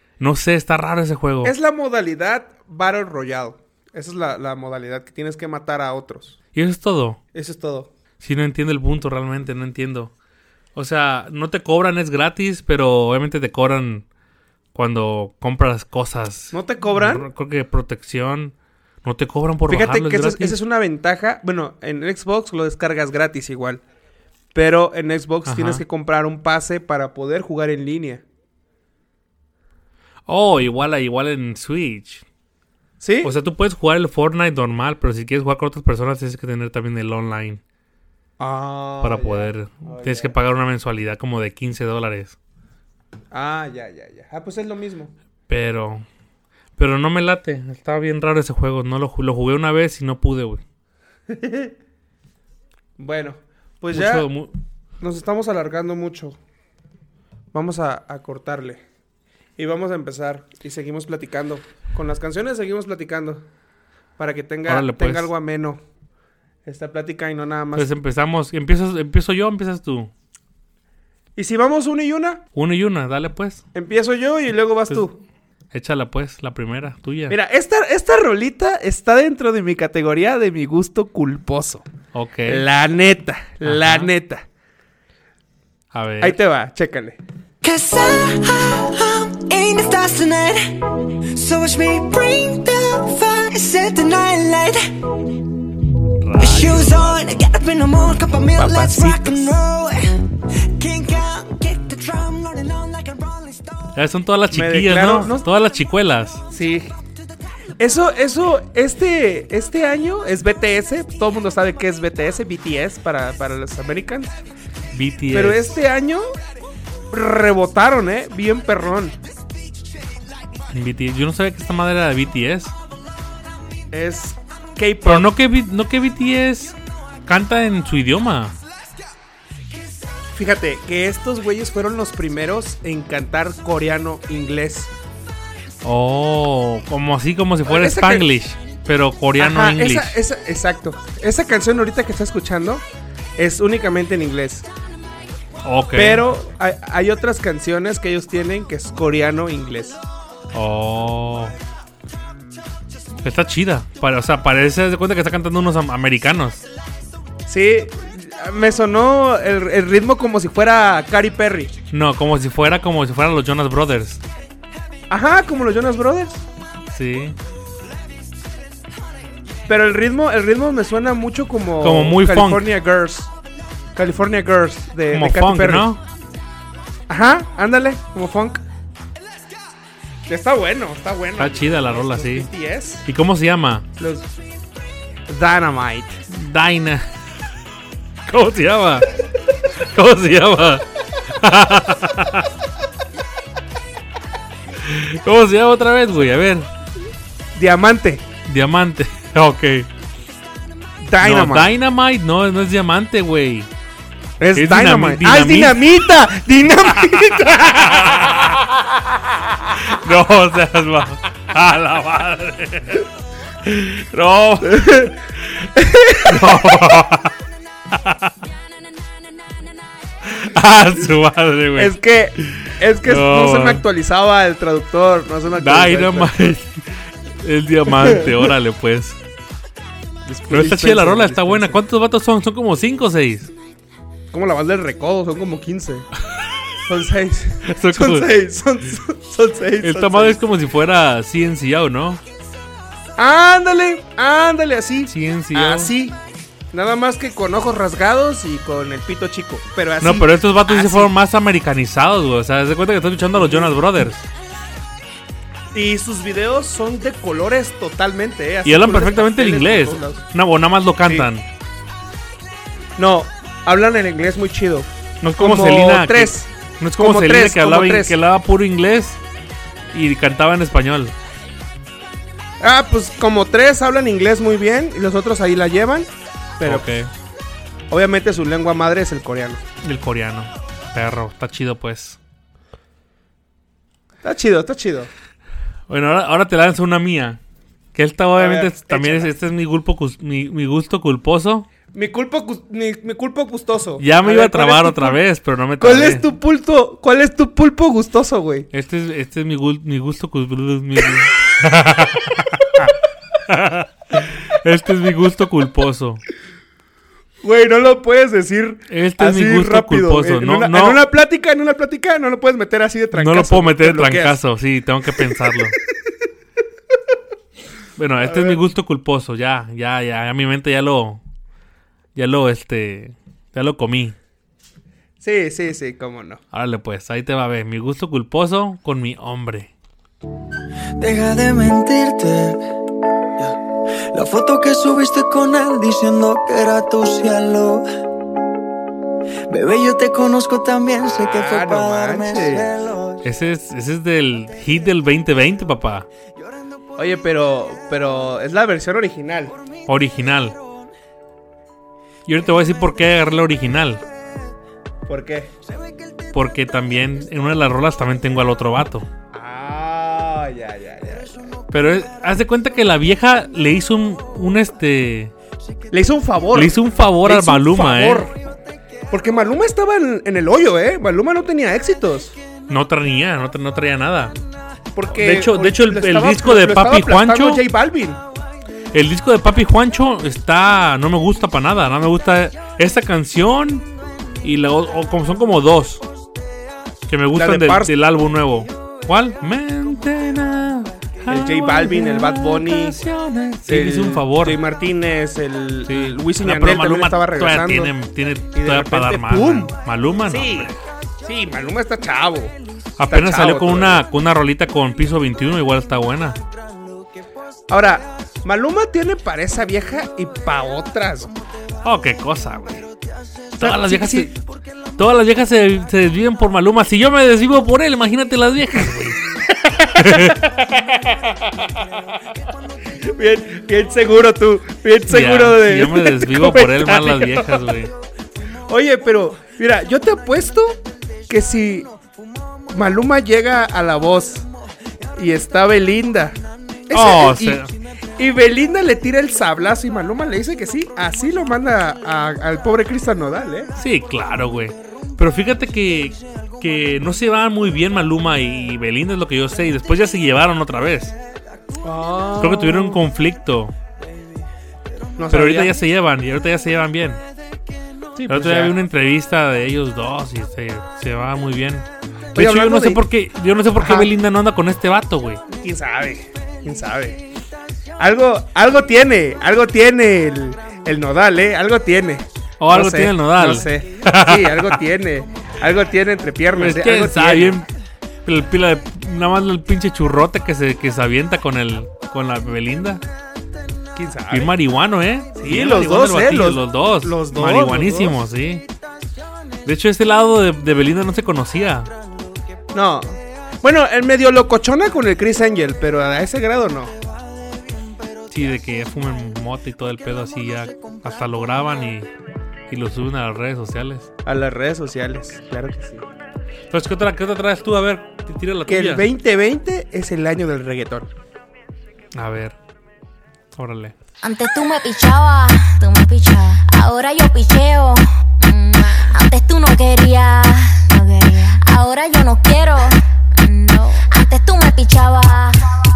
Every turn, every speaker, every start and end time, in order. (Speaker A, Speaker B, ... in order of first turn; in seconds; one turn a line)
Speaker A: 0.2-1.5
Speaker B: 1.4-6.4
Speaker A: 6.5-7.2
Speaker B: 7.3-7.9
Speaker A: 8.2-10.1
Speaker A: 10.7-14.0
Speaker A: 14.7-20.6
Speaker B: 16.5-17.3
Speaker B: 19.7-23.8
Speaker B: 24.5-28.2
Speaker A: 25.4-25.8
Speaker A: 30.2-32.2
Speaker B: 33.0-33.3
Speaker A: 33.2-37.6
Speaker B: 38.4-40.3
Speaker A: 39.0-42.4
Speaker B: 43.3-45.1
Speaker A: 45.5-46.0
Speaker A: 46.8-50.6
Speaker B: 51.3-51.7
Speaker B: 53.0-54.3
Speaker A: 53.9-54.5
Speaker B: 55.0-56.4
Speaker B: 57.5-58.8
Speaker B: 59.6-63.4
Speaker B: 64.2-65.8
Speaker A: 64.7-65.3
Speaker B: 66.6-67.9
Speaker A: 67.7-70.1
Speaker B: 71.3-72.4
Speaker A: 72.5-73.6
Speaker B: 73.7-75.2
Speaker A: 75.7-77.3
Speaker B: 77.3-81.8
Speaker A: 82.1-82.6
Speaker B: 82.5-84.4
Speaker A: 83.6-84.1
Speaker A: 85.9-86.4
Speaker B: 86.2-87.2
Speaker C: 87.6-95.2
Speaker A: 96.2-97.4
Speaker C: 96.4-103.9
Speaker B: 96.4-97.1
Speaker B: 98.5-99.5
Speaker A: 103.9-106.4
Speaker B: 104.5-105.5
Speaker B: 106.5-106.9
Speaker B: 107.8-114.3
Speaker A: 114.9-115.8
Speaker B: 115.3-116.3
Speaker B: 117.1-119.2
Speaker A: 120.7-122.7
Speaker B: 123.9-125.3
Speaker A: 125.0-128.6
Speaker B: 130.3-134.9
Speaker A: 135.8-140.2
Speaker B: 137.7-138.3
Speaker B: 139.4-142.8
Speaker B: 143.4-144.7
Speaker A: 145.6-146.3
Speaker B: 145.9-150.0
Speaker A: 150.5-151.5
Speaker A: 153.2-156.6
Speaker B: 157.5-161.7
Speaker A: 161.9-164.2
Speaker B: 165.1-166.4
Speaker A: 166.9-167.4
Speaker B: 169.7-173.3
Speaker A: 171.8-172.7
Speaker B: 173.9-175.9
Speaker A: 175.1-176.0
Speaker B: 177.1-178.6
Speaker B: 180.3-183.0
Speaker A: 181.4-182.5
Speaker A: 183.0-183.8
Speaker B: 184.0-184.3
Speaker B: 185.3-186.2
Speaker A: 186.3-187.1
Speaker A: 188.2-189.1
Speaker A: 189.7-192.5
Speaker A: 194.8-196.7
Speaker B: 197.5-198.2
Speaker A: 198.4-199.9
Speaker B: 201.0-201.7
Speaker A: 201.2-203.7
Speaker B: 204.4-208.6
Speaker A: 204.5-206.0
Speaker A: 206.9-208.7
Speaker A: 209.7-213.0
Speaker A: 213.6-215.5
Speaker B: 214.6-215.2
Speaker B: 215.7-216.4
Speaker A: 216.2-217.3
Speaker A: 217.9-218.3
Speaker A: 220.2-223.8
Speaker B: 221.8-226.4
Speaker A: 225.6-229.2
Speaker B: 228.0-228.4
Speaker B: 230.2-231.8
Speaker A: 230.5-233.5
Speaker B: 234.3-236.1
Speaker B: 236.8-240.4
Speaker A: 237.7-238.3
Speaker A: 239.8-242.2
Speaker B: 243.2-246.2
Speaker A: 245.1-245.9
Speaker B: 246.7-251.1
Speaker A: 250.0-254.3
Speaker B: 253.3-253.7
Speaker B: 255.7-260.2
Speaker A: 258.6-261.5
Speaker B: 263.0-268.1
Speaker A: 265.2-269.2
Speaker A: 269.9-271.1
Speaker B: 272.6-276.9
Speaker A: 276.6-277.1
Speaker B: 277.9-279.6
Speaker A: 279.8-282.2
Speaker B: 284.2-285.1
Speaker A: 285.9-287.4
Speaker A: 287.9-291.7
Speaker B: 288.4-289.3
Speaker B: 291.9-295.2
Speaker A: 294.0-296.2
Speaker B: 295.8-298.7
Speaker A: 298.7-302.9
Speaker A: 303.5-306.2
Speaker B: 307.4-314.4
Speaker A: 308.9-311.0
Speaker A: 313.1-315.8
Speaker A: 318.0-321.2
Speaker B: 318.2-318.6
Speaker A: 322.1-324.2
Speaker B: 325.2-326.4
Speaker A: 326.5-329.7
Speaker C: 331.0-332.6
Speaker C: 334.1-337.8
Speaker C: 339.5-343.2
Speaker B: 341.2-342.7
Speaker A: 343.2-346.1
Speaker B: 347.0-349.5
Speaker A: 349.9-350.5
Speaker A: 352.2-354.0
Speaker B: 355.1-355.5
Speaker A: 356.3-359.1
Speaker B: 359.3-361.3
Speaker A: 361.7-365.3
Speaker B: 365.9-368.4
Speaker A: 366.5-368.3
Speaker B: 369.1-372.3
Speaker A: 372.7-374.3
Speaker B: 374.9-378.2
Speaker A: 375.1-377.6
Speaker A: 378.9-383.9
Speaker A: 384.4-386.0
Speaker A: 387.1-394.6
Speaker B: 387.3-387.9
Speaker B: 391.3-393.0
Speaker B: 393.6-397.9
Speaker A: 395.9-400.7
Speaker B: 398.5-399.7
Speaker B: 400.3-402.5
Speaker A: 403.0-406.4
Speaker B: 403.1-404.0
Speaker B: 407.7-411.3
Speaker A: 411.8-412.9
Speaker A: 413.6-414.3
Speaker B: 413.6-414.3
Speaker A: 415.0-419.2
Speaker B: 419.6-420.7
Speaker A: 419.9-420.6
Speaker B: 423.0-427.6
Speaker A: 425.1-427.9
Speaker B: 428.7-431.9
Speaker B: 432.7-434.4
Speaker B: 435.2-436.4
Speaker B: 436.9-437.7
Speaker A: 436.9-437.7
Speaker B: 438.2-443.7
Speaker A: 443.8-451.1
Speaker B: 451.8-453.0
Speaker A: 452.4-453.7
Speaker B: 455.2-455.8
Speaker A: 455.3-457.2
Speaker B: 458.1-458.8
Speaker A: 458.3-465.4
Speaker B: 462.3-463.0
Speaker B: 463.8-464.1
Speaker B: 465.5-467.2
Speaker B: 468.0-477.6
Speaker A: 472.6-474.8
Speaker A: 476.6-477.7
Speaker A: 478.2-483.0
Speaker B: 483.9-484.5
Speaker A: 484.3-488.6
Speaker B: 485.4-488.2
Speaker A: 489.6-491.9
Speaker B: 492.7-496.9
Speaker C: 497.6-498.0
Speaker A: 498.3-502.1
Speaker A: 502.7-504.1
Speaker B: 504.2-506.0
Speaker A: 506.7-509.1
Speaker B: 508.7-511.1
Speaker A: 512.1-512.6
Speaker A: 513.5-514.0
Speaker D: 514.2-525.7